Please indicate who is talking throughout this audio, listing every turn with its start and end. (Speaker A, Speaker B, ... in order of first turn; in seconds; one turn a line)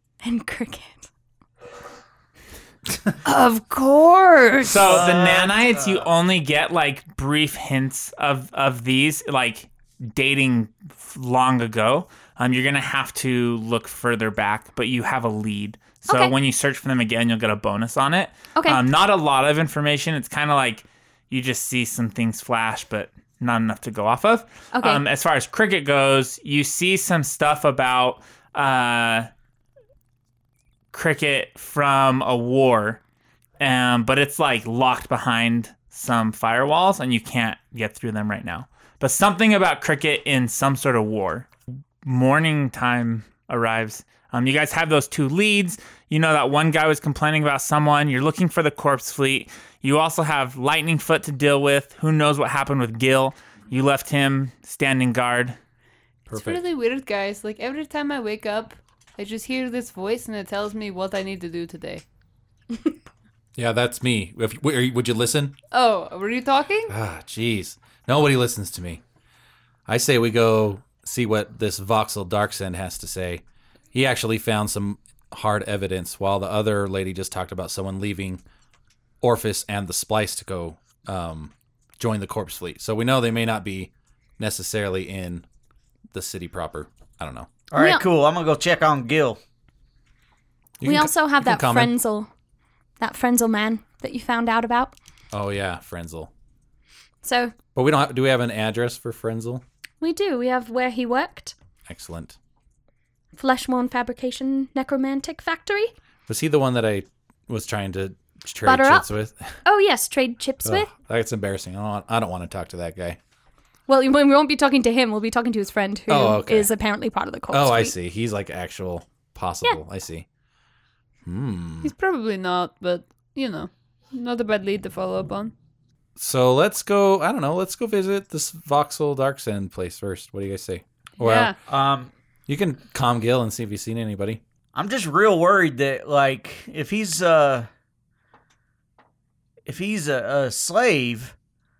Speaker A: 0.2-1.0
Speaker B: 3.2-4.8
Speaker C: 4.7-29.3
Speaker D: 4.8-6.1
Speaker A: 16.1-16.3
Speaker A: 18.5-18.8
Speaker A: 24.7-25.0
Speaker C: 30.9-33.0
Speaker C: 33.6-41.5
Speaker C: 42.0-55.6
Speaker E: 56.3-56.6
Speaker B: 56.3-62.0
Speaker E: 63.5-65.5
Speaker B: 65.7-66.9
Speaker E: 66.9-69.0
Speaker E: 69.9-78.4
Speaker E: 79.2-85.4
Speaker E: 86.1-87.5
Speaker D: 87.7-89.4
Speaker A: 87.8-88.0
Speaker E: 90.8-92.0
Speaker A: 90.8-92.3
Speaker A: 93.0-94.9
Speaker E: 95.3-96.3
Speaker A: 97.2-97.5
Speaker E: 97.7-99.6
Speaker A: 100.0-101.5
Speaker E: 101.8-102.4
Speaker A: 103.3-105.9
Speaker E: 106.3-109.5
Speaker A: 108.6-109.1
Speaker A: 109.6-110.9
Speaker E: 110.6-113.2
Speaker A: 113.9-117.9
Speaker E: 116.1-116.7
Speaker E: 117.5-120.2
Speaker E: 121.2-121.9
Speaker B: 121.8-125.5
Speaker E: 126.2-131.5
Speaker B: 131.2-131.6
Speaker D: 131.7-132.1
Speaker E: 132.5-134.4
Speaker D: 134.7-137.7
Speaker D: 139.7-141.3